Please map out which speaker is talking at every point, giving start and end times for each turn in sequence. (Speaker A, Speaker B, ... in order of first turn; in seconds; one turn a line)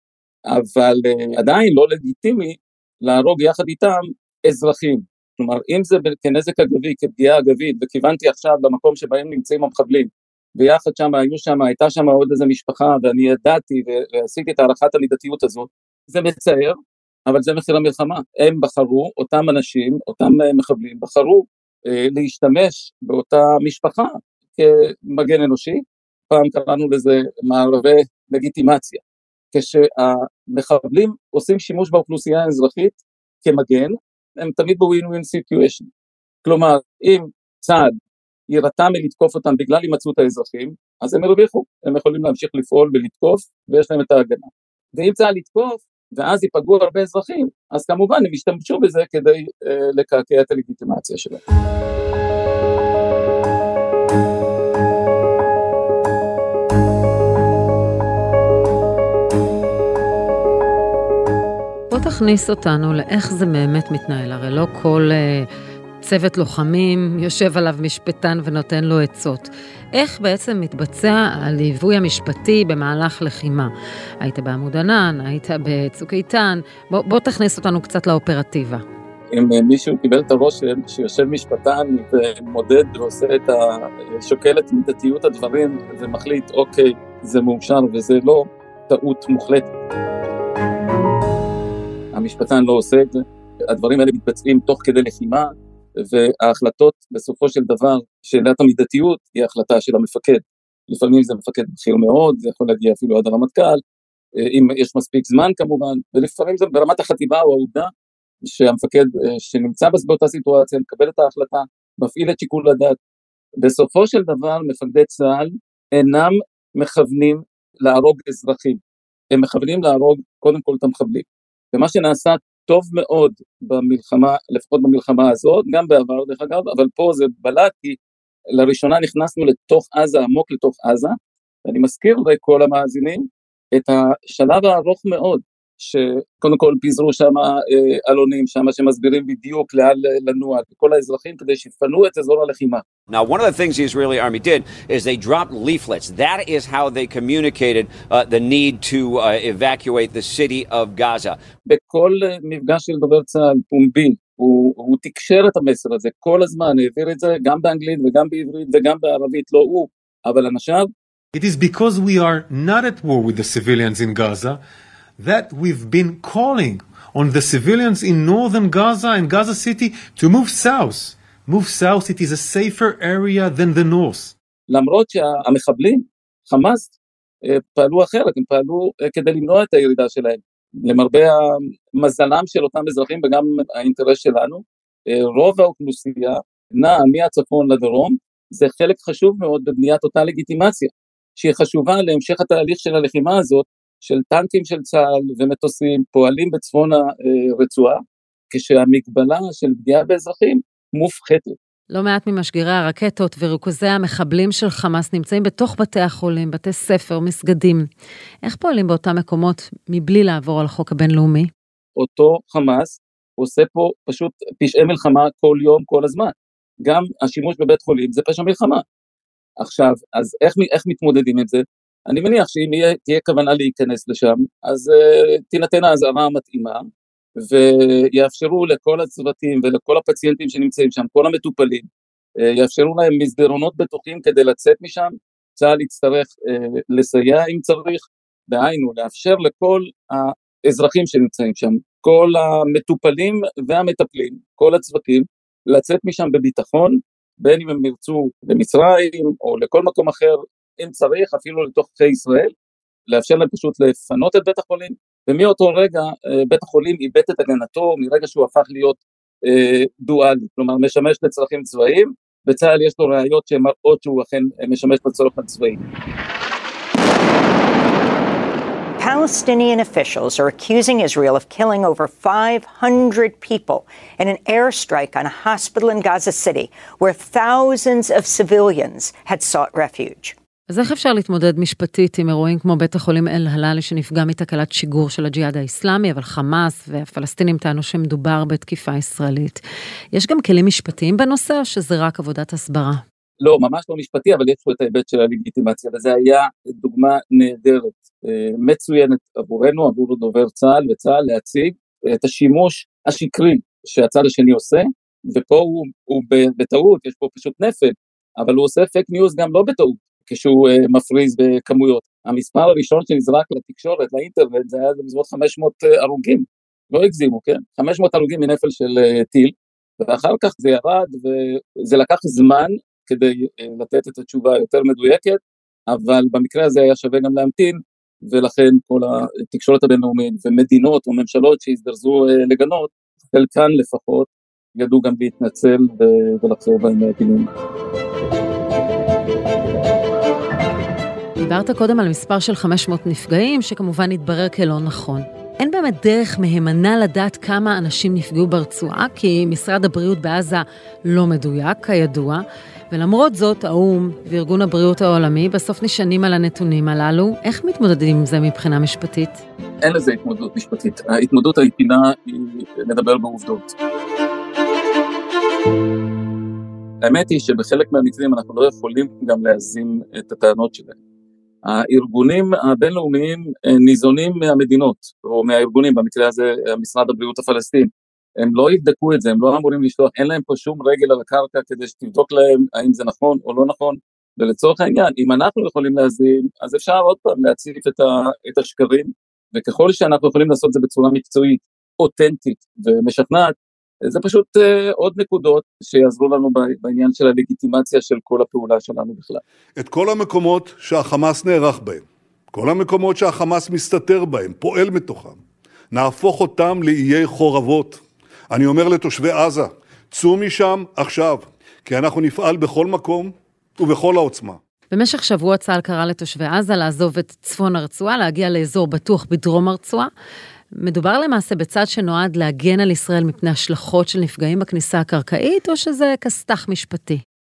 Speaker A: 0.5-16.7
Speaker A: 17.3-29.0
Speaker A: 29.5-35.9
Speaker A: 36.4-37.9
Speaker A: 38.5-51.4
Speaker B: 61.9-65.5
Speaker B: 66.0-78.8
Speaker A: 79.3-89.7
Speaker A: 92.1-103.8
Speaker A: 104.4-107.9
Speaker A: 108.4-113.0
Speaker A: 113.6-118.8
Speaker A: 119.3-128.0
Speaker A: 128.5-142.8
Speaker C: 143.1-151.4
Speaker A: 151.7-160.9
Speaker D: 161.3-164.6
Speaker D: 165.2-174.3
Speaker A: 174.7-176.9
Speaker A: 177.4-201.6
Speaker B: 201.9-207.9
Speaker B: 208.4-211.5
Speaker A: 212.0-216.3
Speaker A: 216.8-218.8
Speaker A: 219.6-226.8
Speaker A: 227.4-231.9
Speaker A: 232.4-252.5
Speaker A: 253.1-265.8
Speaker E: 269.0-280.3
Speaker B: 280.7-289.6
Speaker B: 290.1-293.0
Speaker A: 293.4-337.5
Speaker B: 341.4-359.4
Speaker A: 359.8-363.7
Speaker A: 367.0-370.9
Speaker A: 371.6-393.5
Speaker A: 394.0-399.4
Speaker F: 399.8-405.4
Speaker F: 405.9-414.6
Speaker B: 414.9-420.1
Speaker B: 420.7-427.2